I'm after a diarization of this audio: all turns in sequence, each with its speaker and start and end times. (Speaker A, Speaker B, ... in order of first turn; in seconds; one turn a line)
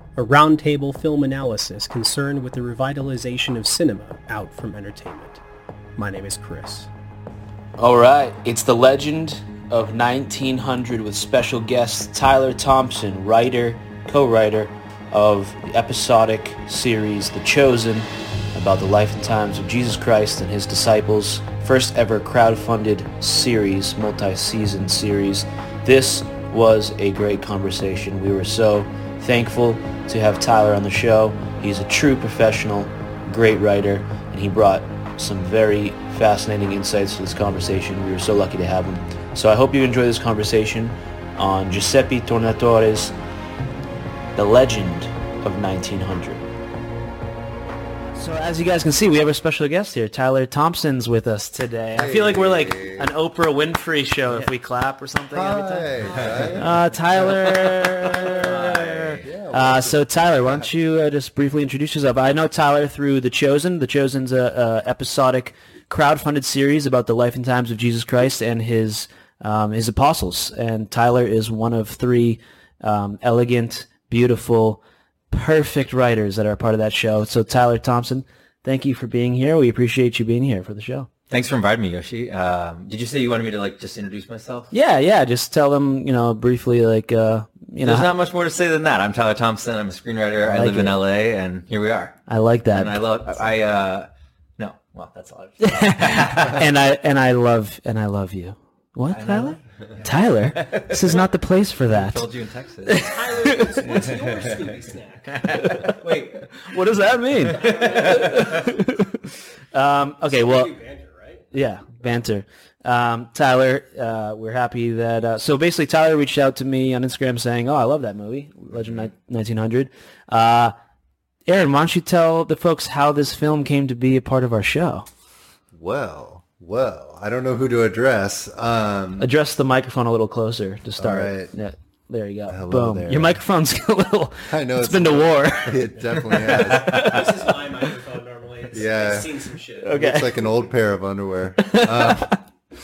Speaker A: 0.1-5.4
Speaker A: 6.0-6.9
Speaker B: 7.8-43.1
Speaker B: 44.4-46.4
Speaker B: 48.2-56.0
Speaker C: 52.0-53.1
Speaker C: 55.3-56.7
Speaker D: 56.2-56.5
Speaker B: 56.5-81.1
Speaker C: 59.2-60.6
Speaker D: 81.3-84.7
Speaker B: 84.7-88.1
Speaker D: 87.8-92.2
Speaker B: 90.5-91.0
Speaker B: 92.3-93.0
Speaker D: 92.7-96.7
Speaker B: 95.6-102.2
Speaker D: 99.1-101.2
Speaker D: 101.9-103.1
Speaker B: 102.8-103.9
Speaker A: 103.0-105.7
Speaker D: 103.9-104.2
Speaker D: 105.4-106.8
Speaker B: 105.5-106.0
Speaker B: 106.6-110.7
Speaker D: 107.4-108.4
Speaker A: 107.6-108.7
Speaker A: 110.3-111.5
Speaker B: 111.5-120.7
Speaker B: 121.5-125.1
Speaker C: 125.7-129.3
Speaker B: 129.2-137.2
Speaker C: 131.0-131.5
Speaker C: 132.5-133.4
Speaker C: 134.5-137.2
Speaker A: 136.9-140.0
Speaker C: 138.7-139.3
Speaker B: 139.8-140.3
Speaker C: 139.9-142.4
Speaker B: 141.6-142.4